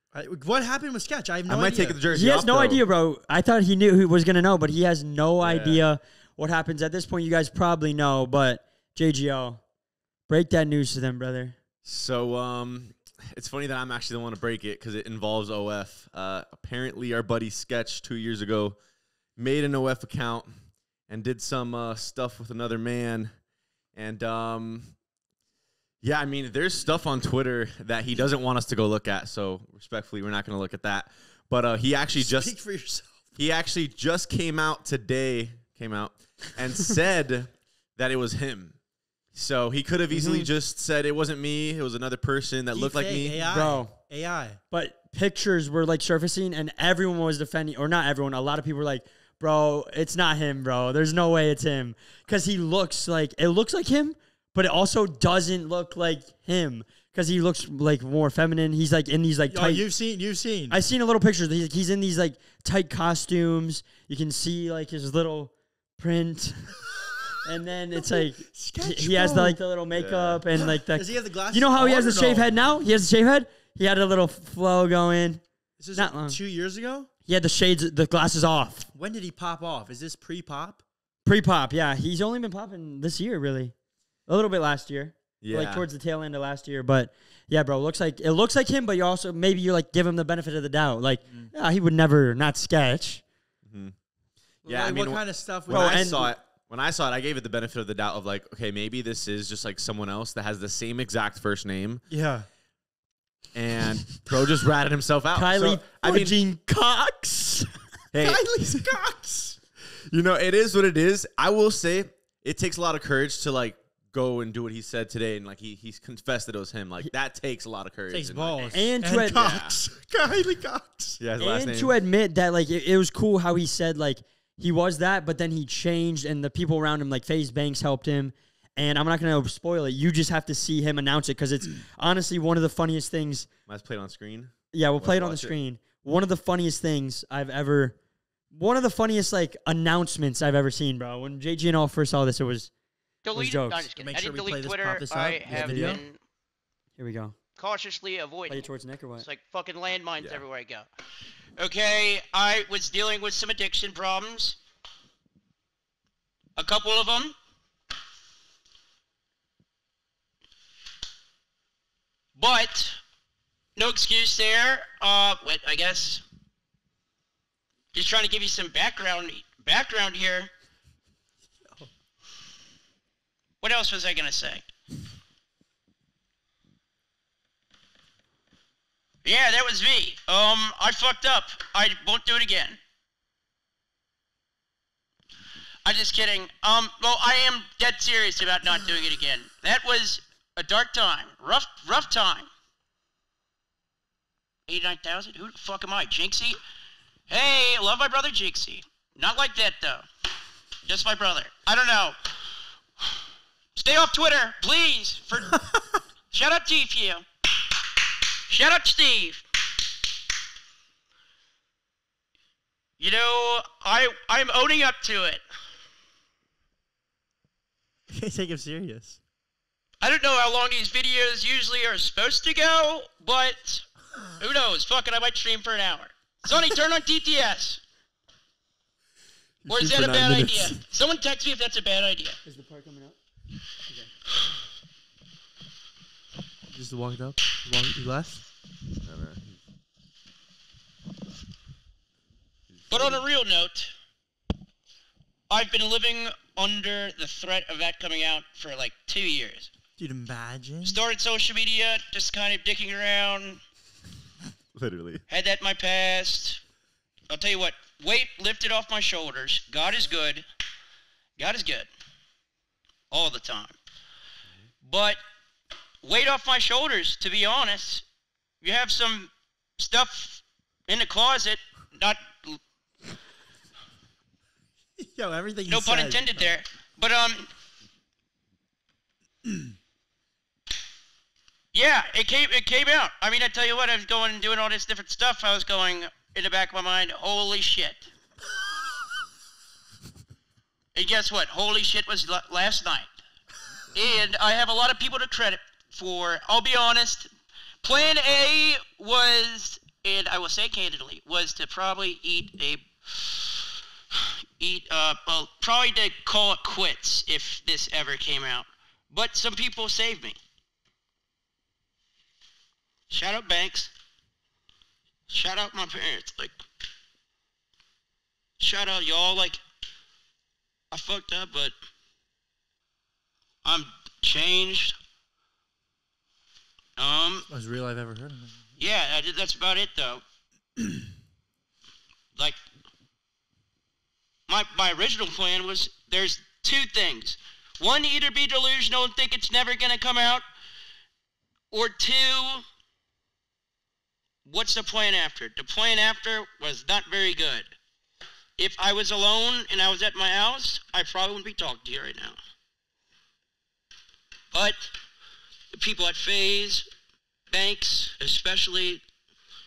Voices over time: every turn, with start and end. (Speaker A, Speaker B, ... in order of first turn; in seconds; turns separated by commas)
Speaker A: 0.1-2.0, Speaker B: 1.4-2.8, Speaker C: 2.1-9.6, Speaker B: 5.4-5.8, Speaker C: 10.3-11.6, Speaker B: 11.8-18.8, Speaker B: 19.4-20.6, Speaker B: 21.1-23.3, Speaker B: 23.9-24.9, Speaker B: 26.0-32.5, Speaker A: 32.1-33.2, Speaker B: 33.4-38.8, Speaker B: 39.3-43.5, Speaker C: 40.1-40.5, Speaker A: 42.7-44.6, Speaker C: 43.4-43.9, Speaker C: 44.7-59.9, Speaker A: 59.5-60.8, Speaker C: 60.7-66.8, Speaker C: 67.4-75.4, Speaker A: 68.0-69.6, Speaker B: 69.9-70.4, Speaker A: 70.7-72.5, Speaker A: 75.8-77.1, Speaker C: 75.9-76.4, Speaker C: 77.2-78.9, Speaker A: 78.9-80.8, Speaker C: 81.2-83.7, Speaker C: 84.3-93.2, Speaker B: 85.4-85.9, Speaker A: 91.3-91.5, Speaker B: 93.6-93.9, Speaker B: 94.6-102.0, Speaker A: 94.6-96.2, Speaker C: 95.7-96.3, Speaker A: 102.1-102.5, Speaker B: 103.5-106.4, Speaker C: 105.3-107.8, Speaker B: 108.1-108.8, Speaker A: 108.2-109.6, Speaker B: 109.9-118.7, Speaker A: 118.1-121.2, Speaker C: 118.7-119.4, Speaker B: 119.3-119.8, Speaker B: 121.2-121.9, Speaker C: 121.4-133.5, Speaker B: 133.7-135.5, Speaker C: 134.7-138.0, Speaker C: 138.5-142.7, Speaker D: 143.2-146.2, Speaker C: 143.3-143.9, Speaker A: 143.9-146.0, Speaker C: 145.5-146.0, Speaker C: 147.0-147.3, Speaker D: 147.6-148.6, Speaker C: 148.5-149.2, Speaker D: 149.2-150.9, Speaker D: 151.6-154.6, Speaker D: 156.6-157.3, Speaker D: 162.3-163.0, Speaker D: 163.8-166.2, Speaker D: 167.9-170.5, Speaker D: 173.6-174.6, Speaker D: 179.2-182.8, Speaker D: 185.8-192.5, Speaker D: 194.7-196.6, Speaker D: 197.3-200.1, Speaker D: 200.8-202.2, Speaker D: 203.8-205.6, Speaker D: 206.3-207.2, Speaker D: 208.5-209.4, Speaker D: 213.0-215.4, Speaker A: 218.1-219.2, Speaker D: 220.0-227.8, Speaker B: 229.6-230.8, Speaker D: 229.7-232.4, Speaker C: 232.4-233.2, Speaker A: 236.7-238.4, Speaker B: 239.0-239.4, Speaker B: 242.7-243.2, Speaker D: 242.9-243.9, Speaker D: 245.5-249.7, Speaker A: 250.0-251.0, Speaker D: 250.8-253.6, Speaker B: 254.7-255.2, Speaker D: 255.3-256.6, Speaker D: 257.3-260.4, Speaker D: 261.4-261.9, Speaker D: 263.1-263.7, Speaker D: 264.8-265.2, Speaker D: 266.0-268.0, Speaker D: 268.6-272.6, Speaker A: 275.0-276.5, Speaker D: 275.7-277.5, Speaker A: 279.4-279.7, Speaker D: 281.7-288.1, Speaker D: 290.9-293.1, Speaker D: 293.9-297.3, Speaker D: 297.8-303.6, Speaker D: 304.2-310.4, Speaker D: 313.1-313.9, Speaker D: 315.3-316.6, Speaker D: 318.6-319.6, Speaker D: 320.9-321.7, Speaker D: 323.6-324.9, Speaker D: 327.0-327.5, Speaker A: 327.5-328.6, Speaker D: 328.8-330.2, Speaker D: 334.5-340.4, Speaker D: 341.7-342.6, Speaker D: 344.4-347.7, Speaker D: 348.6-352.4, Speaker D: 354.5-354.9, Speaker D: 355.7-356.9, Speaker D: 357.5-359.0